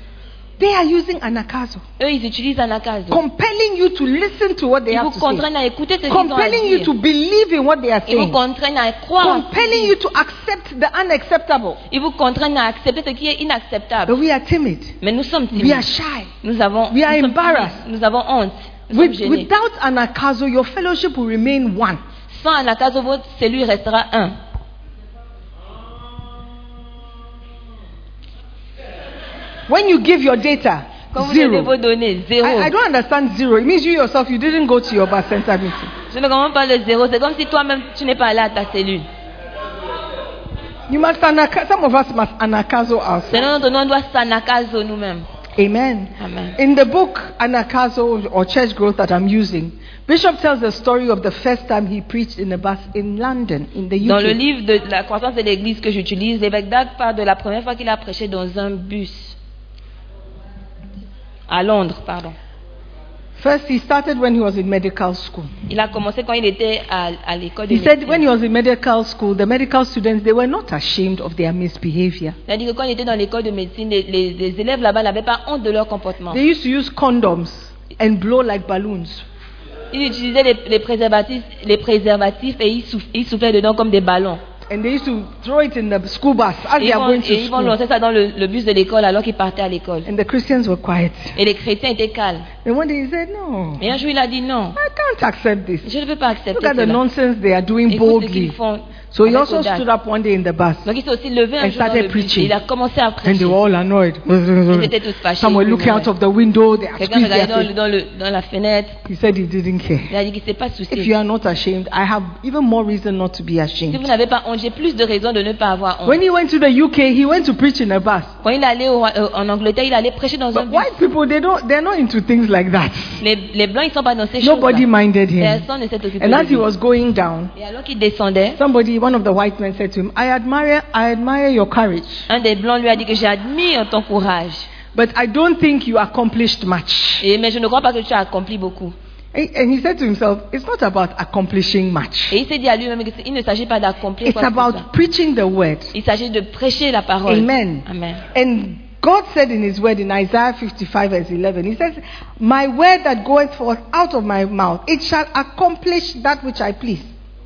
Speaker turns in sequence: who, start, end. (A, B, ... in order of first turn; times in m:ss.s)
0:00.6-0:01.8 A
0:02.0-0:03.2 B
0:03.1-0:05.5 A
0:04.9-0:06.9 B
0:06.1-0:08.4 A
0:08.1-0:10.0 B
0:09.2-0:11.8 A
0:11.9-0:14.2 B
0:14.1-0:15.0 A
0:15.0-0:15.8 B
0:15.5-0:16.3 A
0:16.4-0:19.5 B
0:16.9-0:17.8 A
0:18.9-0:22.0 A
0:22.3-0:24.4 B
0:29.7-0:31.8 A
0:31.1-0:32.7 B
0:32.4-0:35.9 A
0:36.1-0:39.1 B
0:40.9-0:43.5 A
0:43.3-0:45.3 B
0:45.6-0:54.4 A
0:46.2-0:46.6 B
0:54.0-0:59.4 B
1:01.5-1:02.4 B
1:03.4-1:05.5 A
1:05.7-1:08.3 B
1:07.7-1:12.4 A
1:12.5-1:16.4 B
1:16.3-1:19.2 A
1:19.9-1:24.4 B
1:24.7-1:27.8 A
1:26.8-1:30.1 B
1:30.0-1:31.4 A
1:31.4-1:32.5 B
1:32.6-1:33.8 A
1:33.8-1:34.8 B
1:34.8-1:35.9 A
1:35.8-1:37.0 B
1:36.5-1:38.6 A
1:37.9-1:39.8 B
1:39.1-1:40.9 A
1:40.8-1:43.6 B
1:41.6-1:42.5 A
1:43.2-1:47.7 A
1:44.7-1:46.1 B
1:47.0-1:49.0 B
1:49.0-1:50.1 A
1:50.1-1:51.1 B
1:50.9-1:54.1 A
1:53.9-1:56.2 B
1:56.0-1:58.3 A
1:58.4-2:00.9 B
2:00.5-2:03.2 A
2:03.2-2:04.9 B
2:04.4-2:05.6 A
2:05.4-2:06.7 B
2:06.2-2:07.5 A
2:07.6-2:08.6 B
2:08.6-2:12.3 A
2:12.3-2:14.7 B
2:14.9-2:17.2 A
2:17.2-2:19.0 B
2:19.3-2:22.4 A
2:22.3-2:24.9 B
2:24.2-2:25.9 A
2:25.9-2:28.2 B
2:27.3-2:37.1 A